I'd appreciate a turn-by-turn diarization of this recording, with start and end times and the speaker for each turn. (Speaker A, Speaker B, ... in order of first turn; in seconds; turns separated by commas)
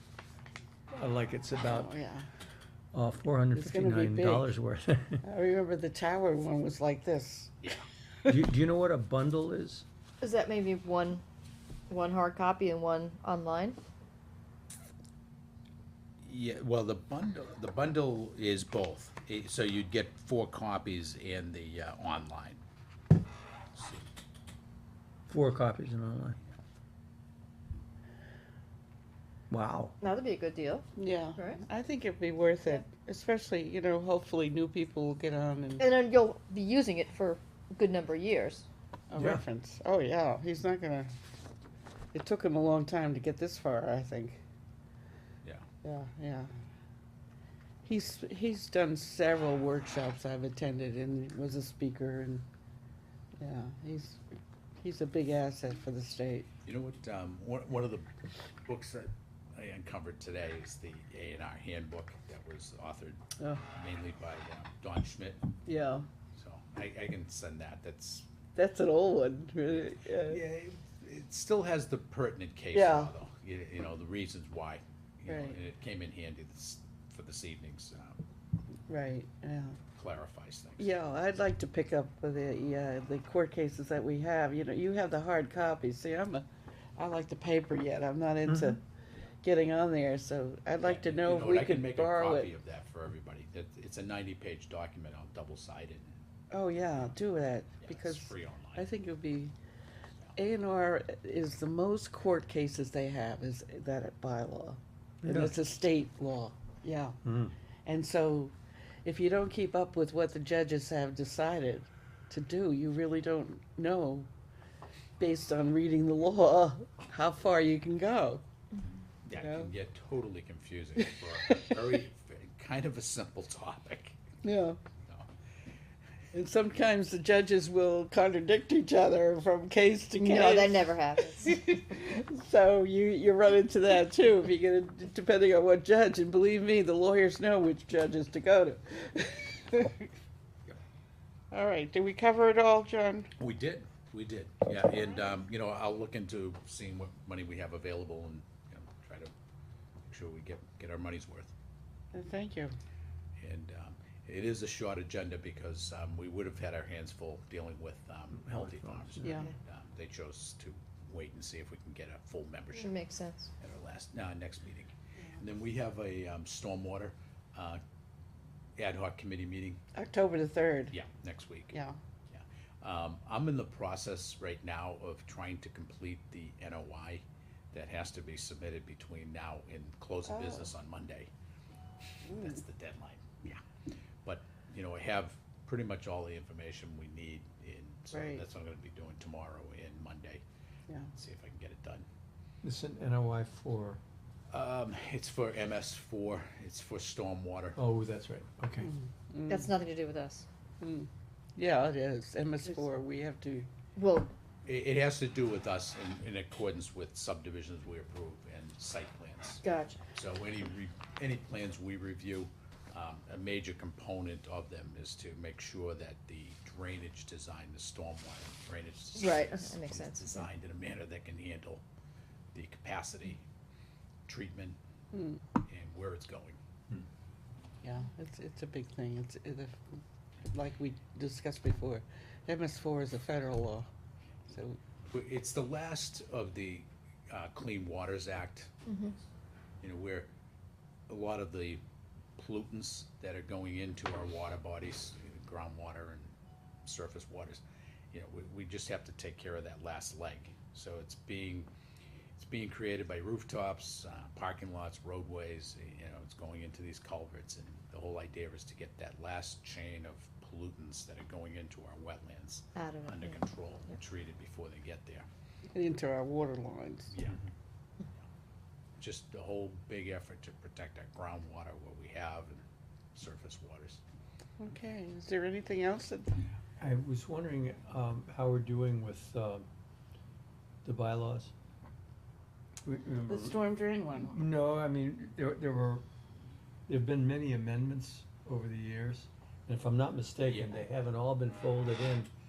Speaker A: 1.0-1.9, Speaker B: 1.6-2.3, Speaker A: 2.9-5.2, Speaker B: 3.5-4.5, Speaker B: 5.2-7.6, Speaker A: 8.3-9.8, Speaker C: 10.2-11.2, Speaker C: 11.9-13.8, Speaker D: 16.2-22.6, Speaker D: 23.7-24.1, Speaker A: 25.3-26.4, Speaker A: 29.5-29.9, Speaker C: 30.0-31.6, Speaker B: 31.0-35.9, Speaker C: 35.8-38.7, Speaker B: 39.1-41.1, Speaker A: 39.2-39.4, Speaker B: 42.1-44.4, Speaker B: 45.8-46.5, Speaker B: 47.8-52.5, Speaker B: 53.4-54.2, Speaker B: 54.8-56.5, Speaker D: 56.6-58.1, Speaker D: 58.7-65.6, Speaker B: 65.7-66.1, Speaker D: 66.3-68.3, Speaker B: 68.5-70.4, Speaker D: 69.8-78.2, Speaker B: 72.7-73.1, Speaker B: 75.3-75.6, Speaker B: 78.9-79.8, Speaker D: 80.0-80.9, Speaker B: 80.8-88.8, Speaker A: 88.5-88.8, Speaker B: 89.4-92.5, Speaker D: 90.8-96.1, Speaker B: 96.5-99.5, Speaker D: 97.8-98.9, Speaker B: 100.4-107.2, Speaker A: 105.2-105.5, Speaker A: 107.2-107.5, Speaker B: 107.8-108.5, Speaker B: 109.0-114.3, Speaker B: 115.2-118.4, Speaker D: 119.2-124.2, Speaker B: 119.4-119.7, Speaker B: 121.4-122.0, Speaker B: 124.4-124.8, Speaker B: 126.3-140.1, Speaker C: 130.2-131.7, Speaker B: 141.5-143.3, Speaker D: 143.4-149.3, Speaker D: 150.1-151.5, Speaker B: 152.1-152.7, Speaker D: 153.4-163.0, Speaker A: 158.4-159.5, Speaker B: 159.2-159.5, Speaker C: 162.7-163.5, Speaker D: 163.6-167.8, Speaker D: 168.8-169.8, Speaker B: 169.9-170.9, Speaker D: 170.9-171.8, Speaker B: 171.7-172.0, Speaker D: 172.3-181.3, Speaker B: 180.3-180.7, Speaker B: 182.3-182.6, Speaker D: 182.3-183.6, Speaker D: 184.2-190.4, Speaker B: 188.1-188.4, Speaker D: 191.1-192.1, Speaker A: 192.6-194.0, Speaker D: 194.5-197.8, Speaker A: 197.8-198.9, Speaker B: 198.9-199.7, Speaker C: 199.5-200.5, Speaker B: 200.8-203.7, Speaker C: 204.0-204.3, Speaker D: 204.7-209.6, Speaker C: 209.6-210.0, Speaker D: 210.1-221.8, Speaker C: 219.2-220.5, Speaker D: 222.5-223.4, Speaker D: 224.3-224.8, Speaker B: 225.1-225.4, Speaker D: 225.6-226.6, Speaker B: 227.8-230.0, Speaker B: 230.5-233.9, Speaker B: 234.5-234.8, Speaker D: 235.1-239.2, Speaker C: 238.9-239.1, Speaker D: 239.8-240.3, Speaker D: 241.1-241.8, Speaker D: 242.4-246.3, Speaker D: 246.8-247.6, Speaker D: 248.1-251.7, Speaker D: 252.4-265.3, Speaker C: 262.8-263.4, Speaker B: 265.8-267.1, Speaker D: 267.1-267.4, Speaker D: 269.0-272.6, Speaker D: 273.1-274.0, Speaker B: 274.6-276.4, Speaker A: 276.8-279.7, Speaker A: 280.8-281.5, Speaker A: 282.8-283.6, Speaker B: 283.3-284.5, Speaker A: 284.3-286.1, Speaker A: 286.9-292.3, Speaker D: 290.5-290.8